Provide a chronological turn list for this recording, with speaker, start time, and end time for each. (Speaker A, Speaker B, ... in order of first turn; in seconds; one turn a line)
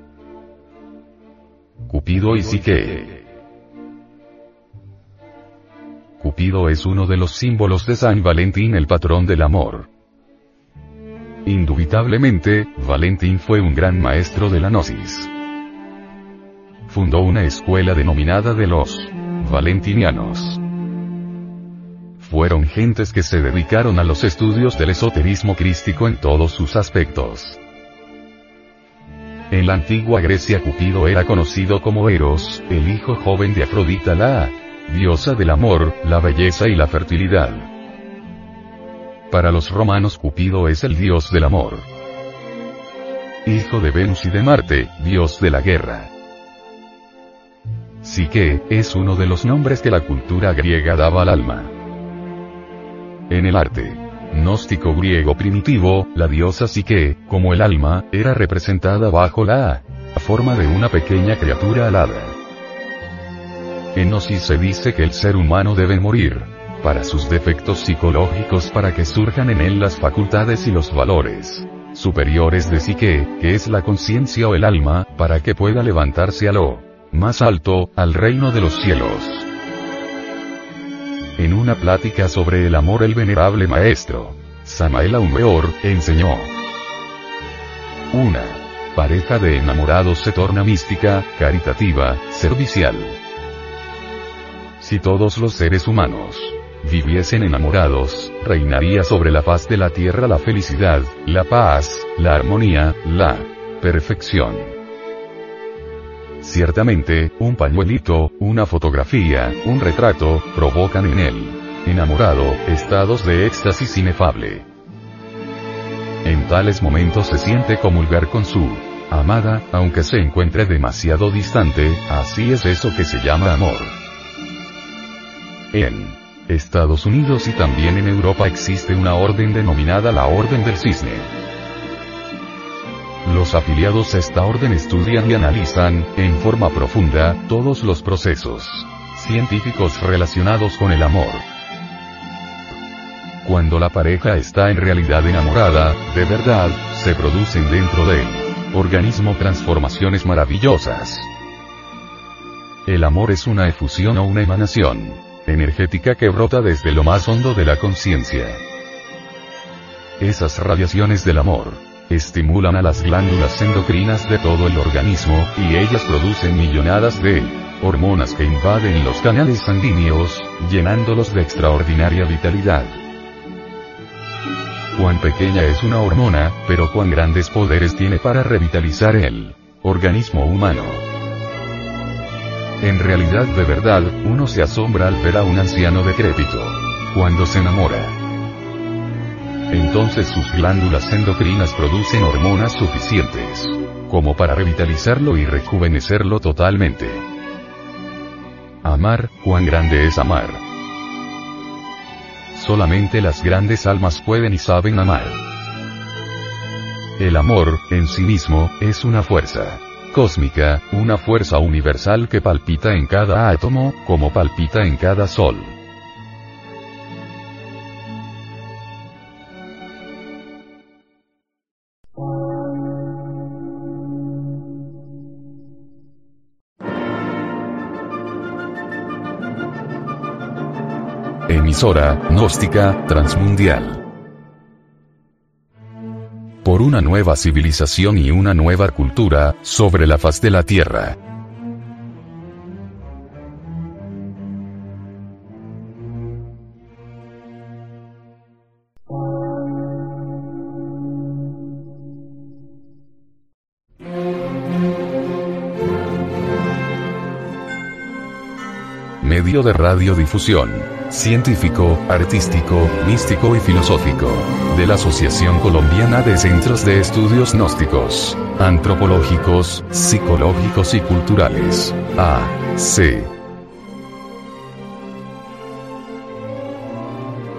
Speaker A: 1.9-3.2
Speaker A: 6.2-9.9
Speaker A: 11.4-15.3
Speaker A: 16.9-20.6
Speaker A: 22.2-27.6
Speaker A: 29.5-37.7
Speaker A: 39.3-41.9
Speaker A: 43.4-46.1
Speaker A: 48.0-51.7
Speaker A: 53.3-62.4
Speaker A: 63.9-79.5
Speaker A: 81.4-86.5
Speaker A: 88.1-93.2
Speaker A: 94.8-104.8
Speaker A: 106.4-114.7
Speaker A: 116.2-124.0
Speaker A: 125.7-131.3
Speaker A: 133.2-141.4
Speaker A: 143.4-151.3
Speaker A: 152.8-158.6
Speaker A: 160.2-173.0
Speaker A: 174.9-181.0
Speaker A: 182.8-188.2
Speaker A: 189.7-197.2
Speaker A: 198.8-200.6
Speaker A: 202.5-205.4
Speaker A: 207.2-215.8
Speaker A: 231.5-234.0
Speaker A: 236.6-241.2
Speaker A: 259.2-273.3